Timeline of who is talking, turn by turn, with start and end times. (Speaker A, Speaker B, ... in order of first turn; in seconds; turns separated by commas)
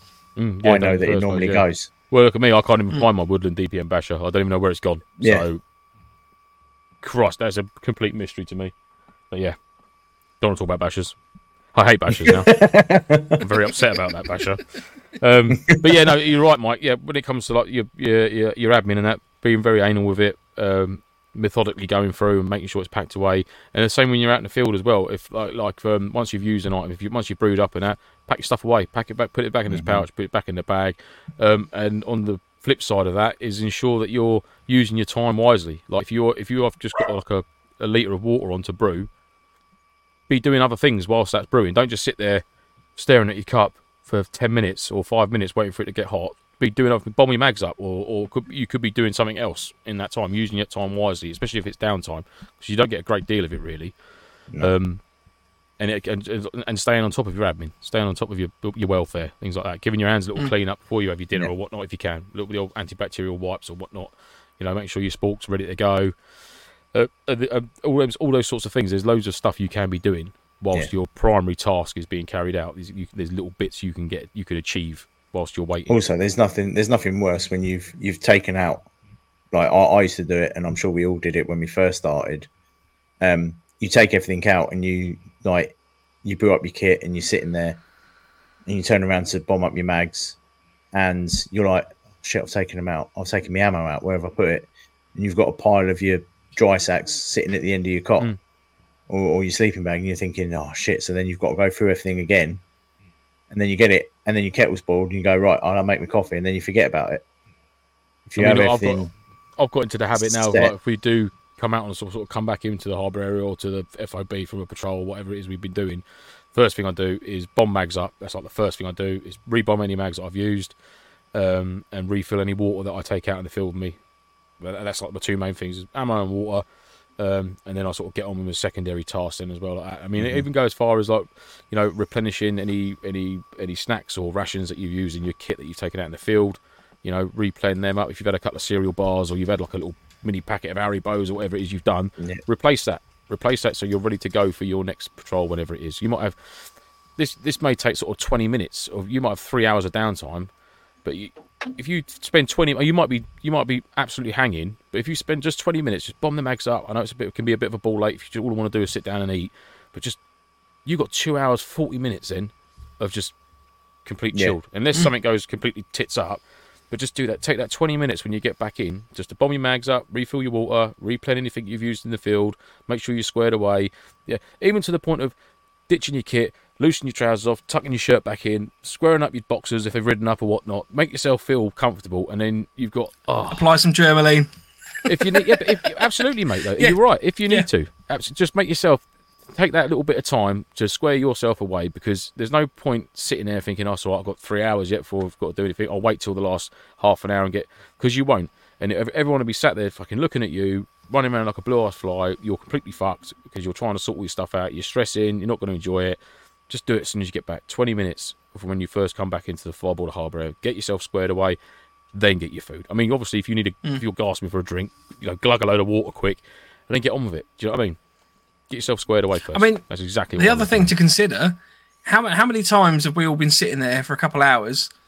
Speaker A: 0.4-5.6, Speaker B: 0.6-1.9, Speaker B: 5.2-5.5, Speaker A: 7.0-8.7, Speaker A: 9.3-9.6, Speaker A: 10.4-11.1, Speaker A: 11.7-12.6, Speaker B: 12.1-13.4, Speaker A: 13.4-14.7, Speaker A: 15.2-39.1, Speaker B: 15.5-15.8, Speaker B: 29.7-30.1, Speaker A: 40.3-42.4, Speaker A: 43.0-53.9, Speaker A: 54.6-55.0, Speaker A: 55.8-66.1, Speaker A: 66.9-76.0, Speaker B: 75.9-78.9, Speaker B: 79.5-82.5, Speaker B: 83.2-87.8, Speaker B: 88.7-90.4, Speaker B: 90.9-98.3, Speaker B: 99.1-102.6, Speaker B: 103.5-107.2, Speaker B: 108.3-109.1, Speaker A: 108.4-109.0, Speaker A: 109.6-116.0, Speaker B: 110.2-110.7, Speaker A: 116.5-120.7, Speaker A: 121.3-124.0, Speaker A: 124.6-126.6, Speaker A: 127.2-146.3, Speaker B: 130.2-130.4, Speaker A: 147.2-150.5, Speaker A: 151.1-160.2, Speaker A: 160.9-163.3, Speaker A: 164.1-175.3, Speaker A: 175.9-183.7, Speaker C: 183.5-184.5, Speaker A: 185.1-189.0, Speaker C: 185.1-185.8, Speaker A: 189.5-206.2, Speaker A: 206.7-211.6, Speaker A: 212.1-218.0, Speaker A: 218.7-220.9, Speaker C: 219.5-219.8, Speaker C: 220.4-224.9